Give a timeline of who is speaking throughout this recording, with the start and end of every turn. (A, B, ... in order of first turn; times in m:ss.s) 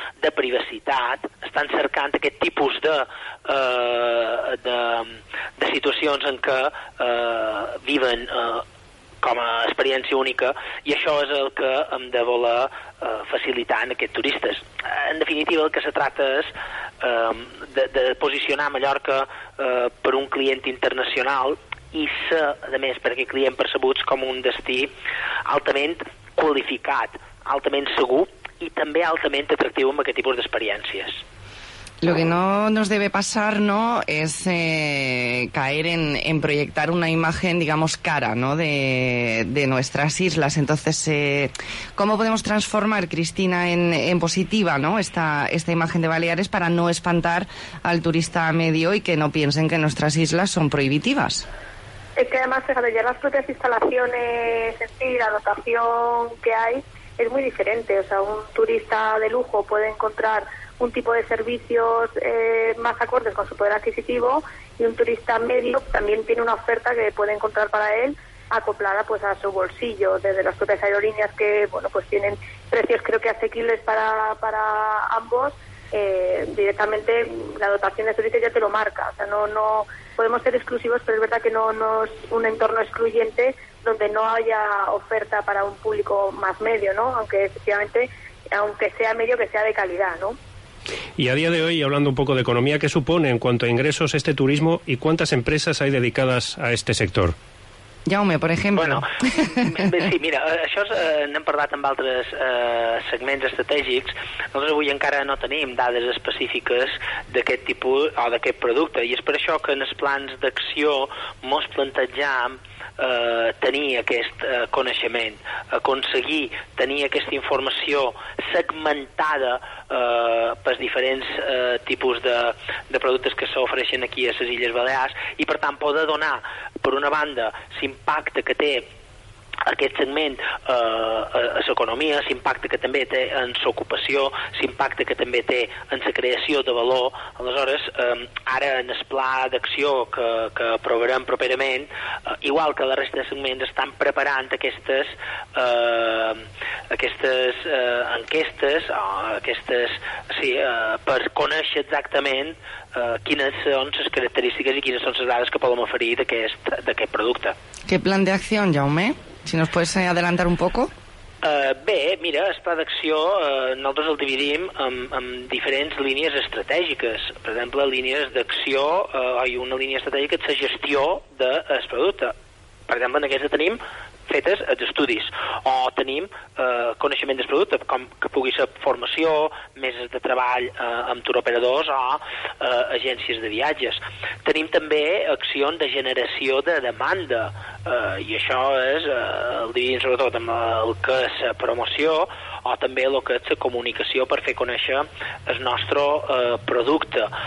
0:00.2-0:08.6 A
0:09.2-0:24.9 A
0:25.5-0:31.2 A
0:32.0-0:51.4 B
0:52.2-1:30.4 C
1:31.2-1:37.3 D
1:38.0-1:39.8 B
1:38.8-2:08.8 A
2:09.7-2:21.9 A
2:22.4-2:37.5 A
2:37.9-2:40.9 B
2:41.4-2:52.3 A
2:52.9-3:17.3 A